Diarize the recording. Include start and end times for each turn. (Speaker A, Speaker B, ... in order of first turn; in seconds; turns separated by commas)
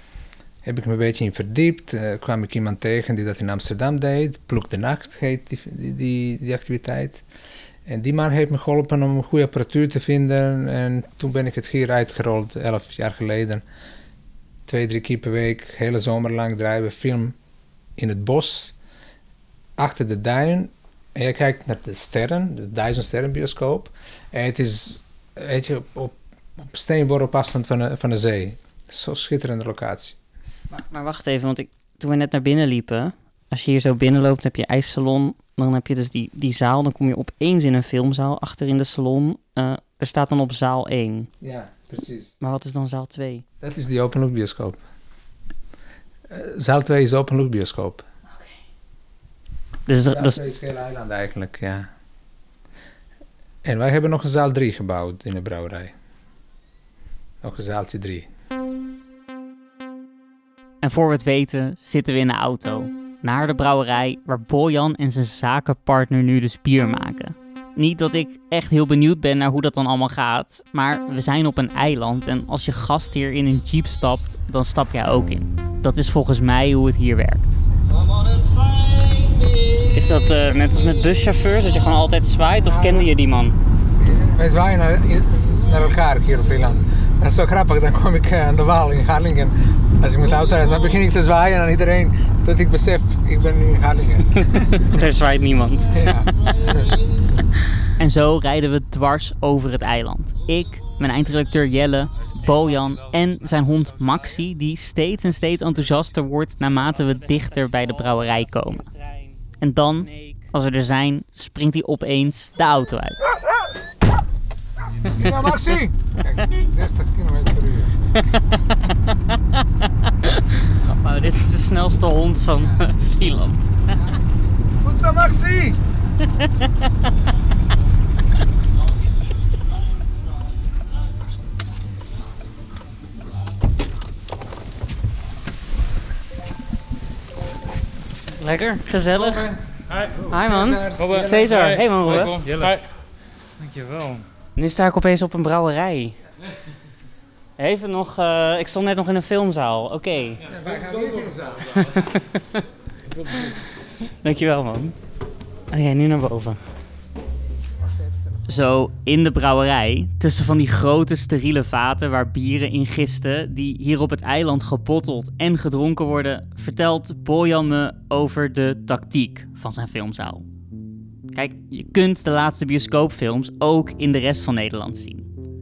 Speaker A: 0.6-7.2, Speaker A: 7.8-13.6, Speaker A: 14.7-17.4, Speaker A: 18.0-18.8, Speaker A: 19.8-30.2, Speaker B: 30.7-41.3, Speaker A: 41.4-42.3, Speaker B: 42.4-43.4, Speaker A: 43.6-44.8, Speaker A: 46.3-48.0, Speaker B: 49.9-50.4, Speaker A: 50.1-51.9, Speaker A: 53.6-55.9, Speaker A: 57.4-58.3, Speaker B: 60.8-77.6, Speaker B: 79.8-83.5, Speaker A: 82.6-83.1, Speaker A: 84.0-94.7, Speaker B: 94.3-96.2, Speaker A: 95.9-96.9, Speaker B: 98.0-108.9, Speaker B: 109.5-113.2, Speaker A: 115.0-118.0, Speaker B: 115.2-115.4, Speaker B: 118.2-118.6, Speaker B: 120.2-123.7, Speaker A: 124.8-125.8, Speaker B: 138.4-139.5, Speaker A: 139.1-141.7, Speaker C: 139.9-140.2, Speaker B: 140.2-142.4, Speaker C: 141.0-142.8, Speaker C: 143.6-144.2, Speaker B: 144.6-146.2, Speaker B: 147.6-150.4, Speaker A: 150.4-152.0, Speaker B: 151.7-152.6, Speaker B: 154.1-154.9, Speaker B: 155.7-156.6, Speaker A: 157.8-158.4, Speaker B: 158.5-170.4, Speaker B: 171.3-175.3